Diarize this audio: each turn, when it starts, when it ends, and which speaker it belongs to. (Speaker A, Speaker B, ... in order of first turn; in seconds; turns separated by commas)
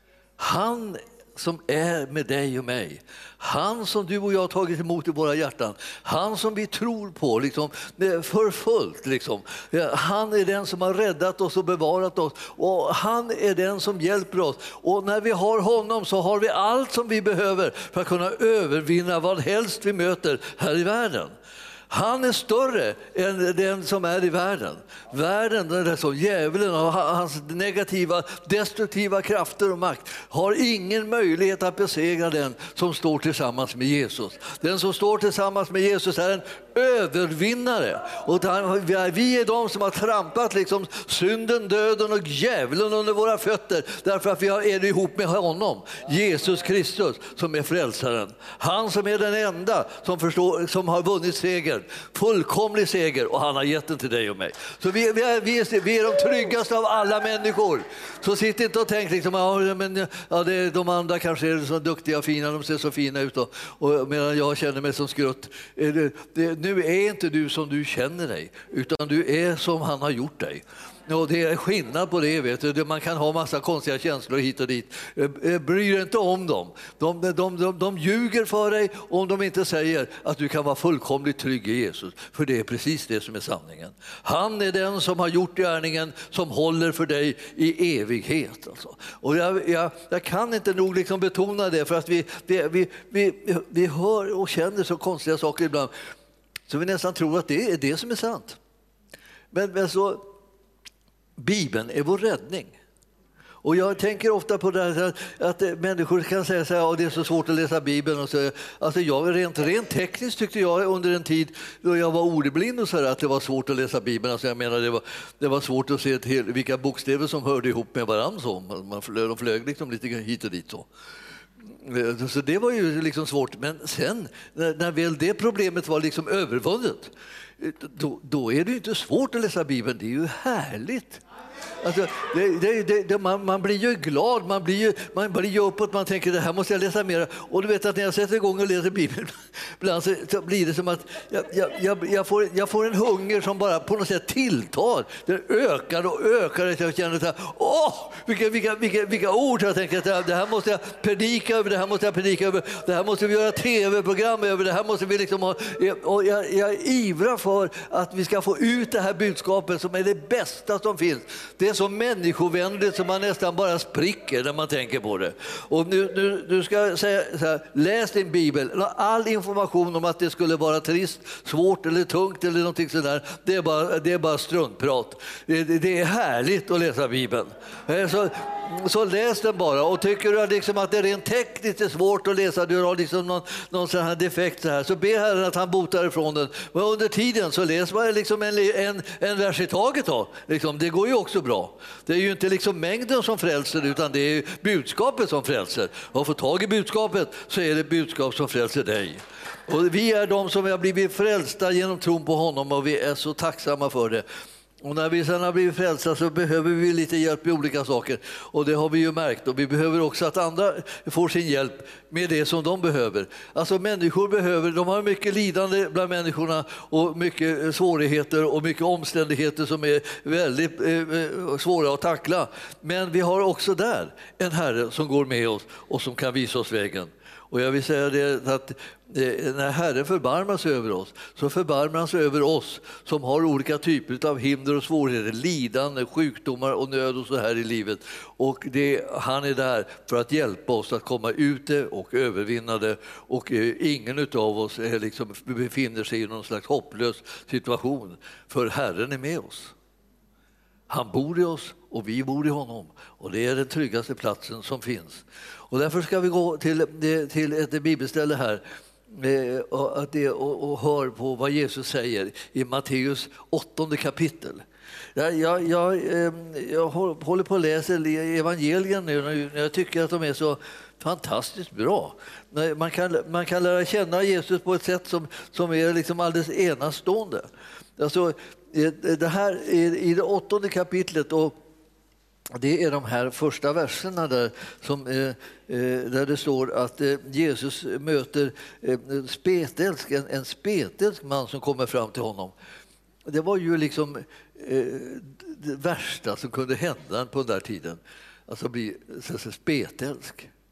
Speaker A: 0.4-21.3, Speaker A: 21.9-95.9, Speaker A: 96.7-98.6, Speaker A: 99.5-100.3, Speaker A: 101.4-102.8, Speaker A: 103.6-120.9, Speaker A: 121.7-131.2, Speaker A: 131.8-204.2, Speaker A: 204.8-249.7, Speaker A: 250.9-264.6, Speaker A: 265.2-277.5, Speaker A: 278.0-281.6, Speaker A: 282.6-292.5, Speaker A: 293.3-300.5